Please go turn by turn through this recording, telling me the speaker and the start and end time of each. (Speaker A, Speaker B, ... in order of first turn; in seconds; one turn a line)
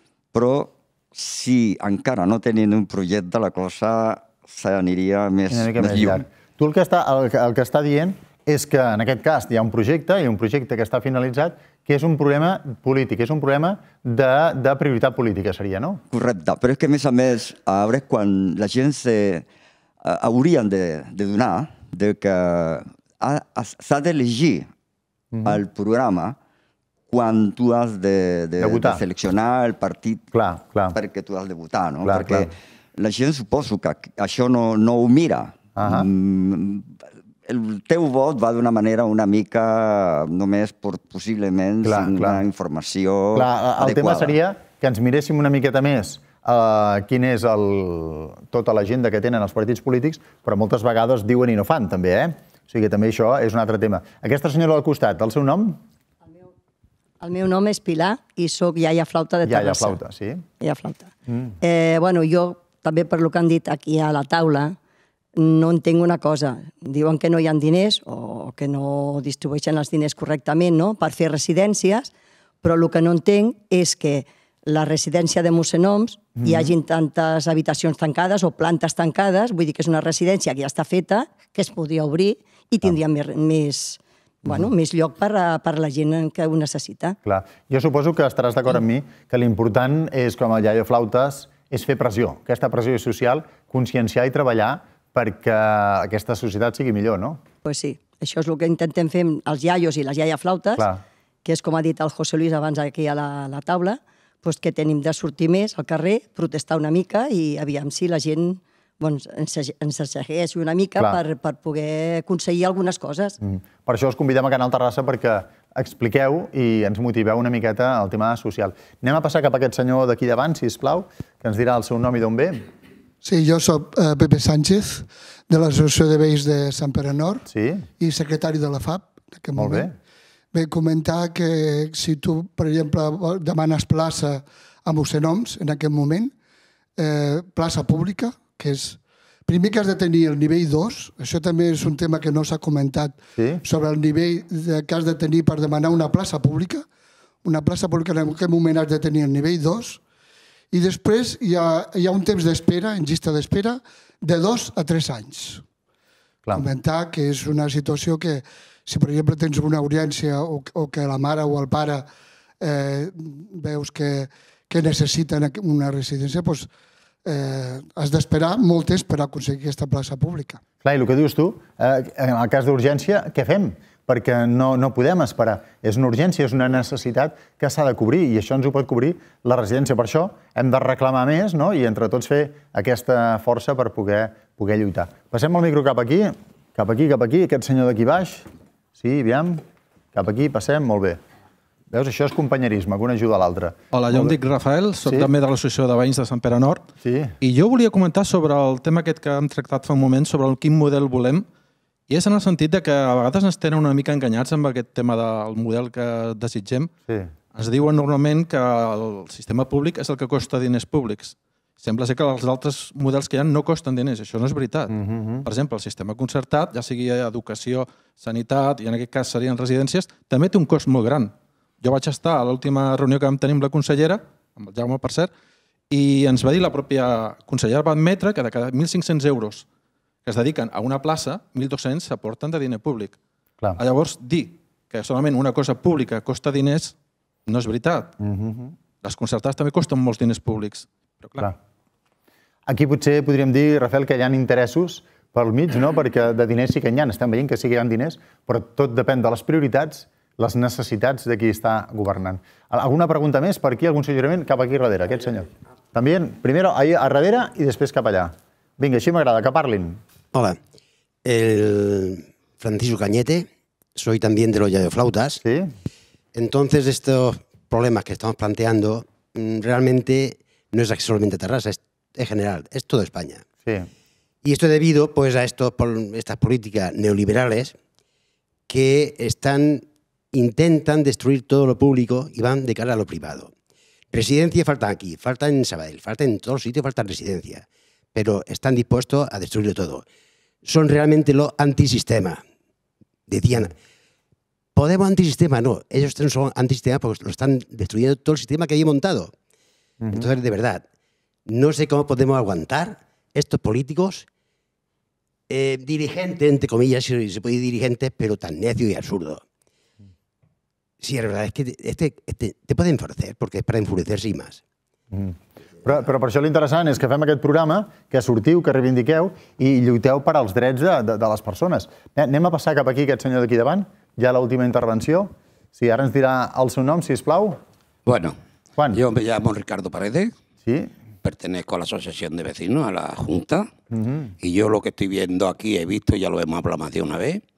Speaker A: 0.3-6.2
Speaker B: 5.5-16.0
Speaker A: 16.1-19.4
Speaker A: 20.1-24.7
Speaker B: 25.3-25.6
Speaker A: 25.4-26.4
Speaker A: 27.1-30.2
Speaker B: 28.6-29.0
Speaker B: 30.3-30.9
Speaker A: 30.9-36.9
Speaker B: 32.0-32.5
Speaker B: 35.8-36.1
Speaker A: 37.5-44.4
Speaker B: 41.9-42.4
Speaker B: 43.4-55.8
Speaker C: 57.2-60.0
Speaker B: 59.5-60.5
Speaker C: 60.6-64.8
Speaker B: 61.3-61.5
Speaker C: 65.4-72.1
Speaker C: 72.6-87.2
Speaker B: 76.4-76.7
Speaker B: 84.5-84.7
Speaker B: 87.2-97.4
Speaker C: 97.6-100.9
Speaker B: 100.8-101.0
Speaker C: 101.5-113.4
Speaker B: 113.4-122.7
Speaker D: 123.2-127.5
Speaker B: 127.5-127.9
Speaker D: 128.0-129.9
Speaker B: 129.6-129.9
Speaker D: 130.5-136.3
Speaker D: 137.0-146.8
Speaker B: 143.4-143.6
Speaker D: 147.4-150.0
Speaker D: 150.7-155.6
Speaker D: 156.5-162.1
Speaker D: 162.6-166.7
Speaker D: 167.2-170.6
Speaker B: 170.8-189.6
Speaker B: 190.1-191.2
Speaker B: 191.9-194.3
Speaker E: 193.9-196.9
Speaker B: 195.0-195.3
Speaker B: 197.0-197.3
Speaker E: 197.4-201.5
Speaker E: 202.1-206.9
Speaker E: 207.5-225.3
Speaker B: 214.9-215.5
Speaker E: 225.9-229.7
Speaker E: 230.2-233.2
Speaker E: 233.8-236.9
Speaker E: 237.5-238.2
Speaker B: 238.2-238.7
Speaker E: 239.0-241.5
Speaker B: 242.7-260.0
Speaker F: 260.3-260.6
Speaker F: 261.2-265.4
Speaker B: 265.4-265.7
Speaker F: 266.4-273.4
Speaker F: 274.4-277.8
Speaker F: 278.7-283.5
Speaker F: 284.1-290.0
Speaker F: 290.6-292.4
Speaker F: 293.3-293.8
Speaker F: 294.8-299.3
Speaker F: 300.1-300.8
Speaker F: 301.5-304.3
Speaker F: 305.5-309.4
Speaker F: 311.0-314.6
Speaker B: 315.1-327.6
Speaker G: 328.1-328.4
Speaker G: 328.9-330.3
Speaker B: 330.6-330.9
Speaker G: 331.2-333.7
Speaker B: 333.9-334.3
Speaker G: 334.4-337.4